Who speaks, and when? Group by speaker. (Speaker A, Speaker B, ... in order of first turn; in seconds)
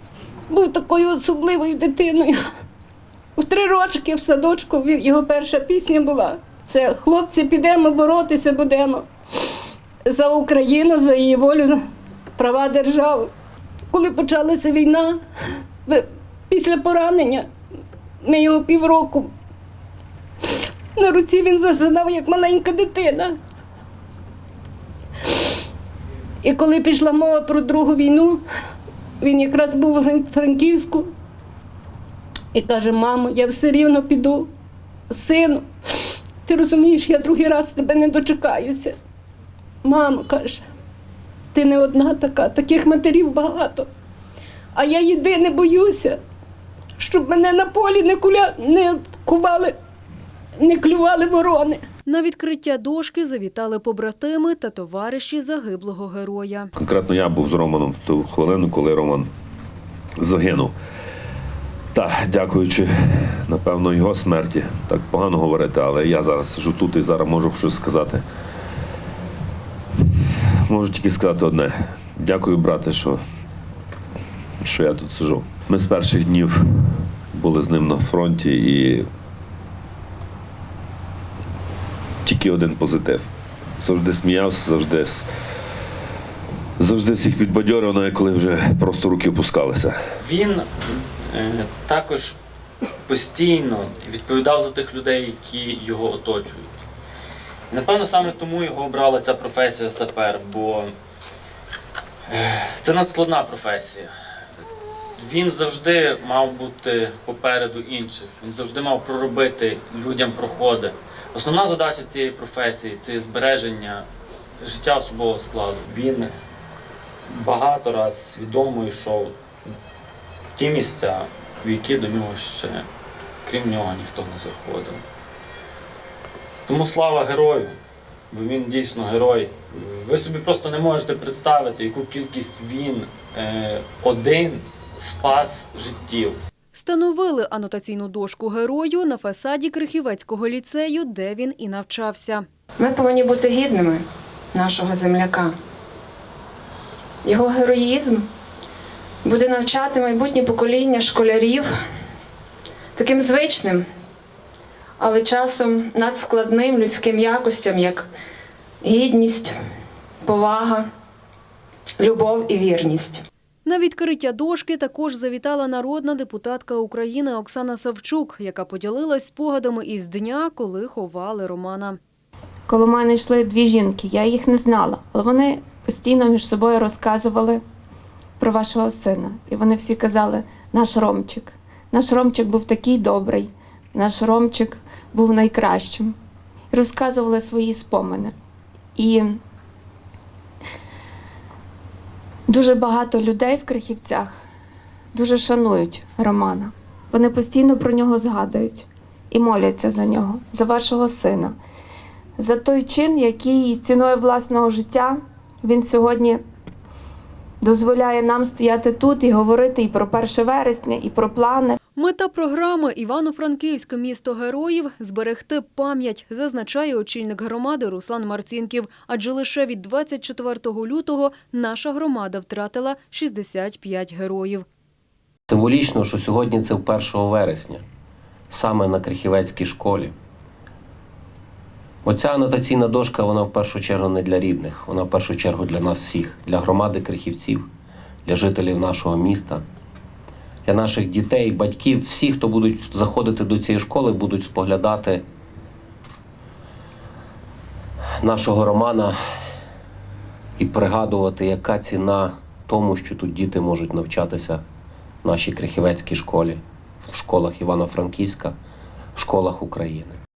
Speaker A: 0.5-2.4, 3.4-9.0, 10.1-11.8, 12.4-13.3, 13.9-15.2, 15.8-17.5, 18.2-19.3, 20.9-23.4, 26.4-28.4, 29.2-31.1, 32.5-34.5, 35.1-35.6, 36.4-39.0, 39.8-40.6, 41.5-43.9, 44.7-46.2, 47.0-49.7, 50.6-51.8
Speaker B: 52.0-56.7, 136.7-142.4, 163.7-172.0, 212.0-224.6
Speaker C: 56.8-59.3, 60.2-60.7, 61.9-68.2, 70.6-73.2, 74.6-79.0, 82.2-83.3, 83.8-85.2, 86.8-90.0
Speaker D: 90.2-92.4, 93.1-96.7, 97.7-100.9, 102.3-104.1, 105.2-114.1, 114.6-116.3, 117.3-119.3, 120.5-122.8, 123.5-125.0, 126.7-127.8, 128.3-136.4
Speaker E: 142.8-145.6, 147.2-148.3, 149.2-151.7, 152.9-153.8, 155.0-158.1, 158.8-159.6, 160.2-160.9, 162.0-163.2
Speaker F: 172.7-177.6, 178.4-186.1, 186.7-188.3, 188.9-189.4, 192.5-194.4, 195.1-201.5, 202.4-206.4, 207.6-211.8
Speaker G: 225.5-227.8, 228.5-230.1, 232.0-237.7, 238.2-239.6, 240.6-245.2, 248.2-249.2, 250.6-254.6, 255.2-258.6, 259.1-260.2